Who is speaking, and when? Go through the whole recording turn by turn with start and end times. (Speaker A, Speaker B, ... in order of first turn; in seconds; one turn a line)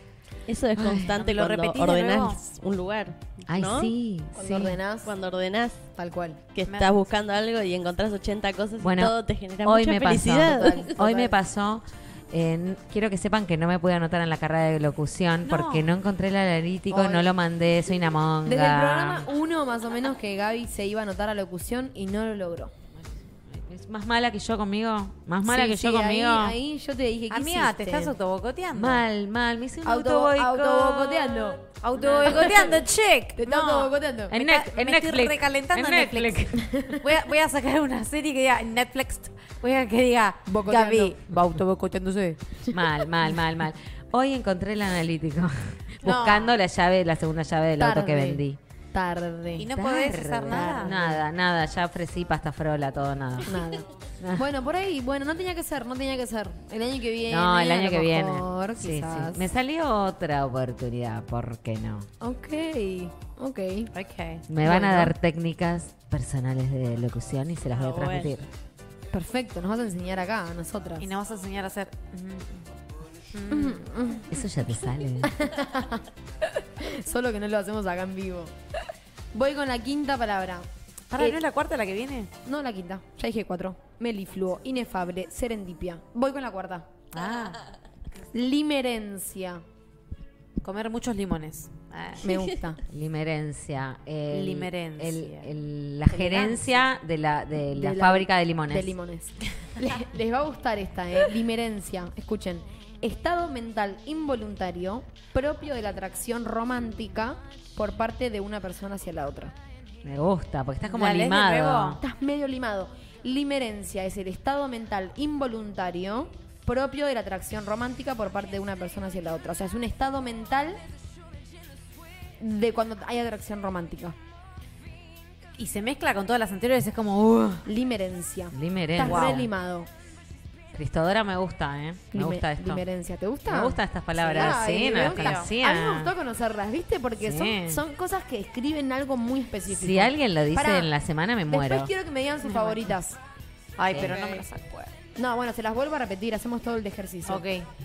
Speaker A: 0.5-3.9
Speaker B: 0.8-1.1
Speaker C: 1.1-2.5
Speaker B: 3.5-4.8
Speaker D: 4.3-5.1
Speaker A: 5.0-5.8
Speaker D: 5.9-6.4
Speaker A: 6.5-10.9
Speaker C: 6.6-7.0
Speaker B: 8.8-19.3
Speaker D: 10.4-11.4
Speaker C: 15.4-15.9
Speaker D: 16.9-17.3
Speaker D: 18.4-22.7
Speaker B: 22.9-26.6
Speaker D: 25.4-28.1
Speaker C: 27.3-29.0
Speaker B: 28.7-31.5
Speaker D: 29.8-32.8
Speaker C: 31.6-42.6
Speaker B: 32.2-32.5
Speaker D: 33.4-34.3
Speaker B: 34.3-37.0
Speaker D: 36.6-37.0
Speaker D: 40.5-41.2
Speaker B: 42.7-48.6
Speaker C: 46.0-46.5
Speaker D: 47.8-49.7
Speaker C: 49.6-50.9
Speaker B: 49.7-53.6
Speaker D: 50.5-51.2
Speaker D: 53.5-59.5
Speaker B: 57.3-62.1
Speaker D: 62.2-63.9
Speaker C: 63.9-64.5
Speaker B: 64.5-68.5
Speaker D: 64.6-65.1
Speaker A: 67.7-68.3
Speaker D: 69.1-71.1
Speaker C: 71.0-72.7
Speaker C: 73.3-73.8
Speaker D: 73.5-74.3
Speaker B: 74.3-75.3
Speaker D: 75.2-78.5
Speaker D: 79.3-80.7
Speaker C: 81.1-82.3
Speaker D: 82.4-86.9
Speaker B: 87.1-87.6
Speaker D: 88.3-89.6
Speaker C: 90.6-92.4
Speaker D: 92.2-92.8
Speaker B: 92.9-98.9
Speaker C: 94.3-95.5
Speaker C: 96.1-96.8
Speaker D: 97.6-109.5
Speaker B: 110.0-112.0
Speaker C: 110.8-112.0
Speaker D: 112.0-120.8
Speaker D: 122.4-124.2
Speaker C: 125.6-127.7
Speaker D: 127.6-129.9
Speaker B: 128.5-129.5
Speaker C: 129.0-129.4
Speaker B: 130.7-132.8
Speaker D: 132.1-140.9
Speaker B: 133.5-136.1
Speaker C: 134.2-135.5
Speaker B: 137.2-137.8
Speaker B: 139.7-141.9
Speaker D: 141.5-143.2
Speaker C: 142.4-142.9
Speaker C: 143.8-144.9
Speaker B: 143.9-144.2
Speaker D: 145.2-147.4
Speaker C: 147.3-147.7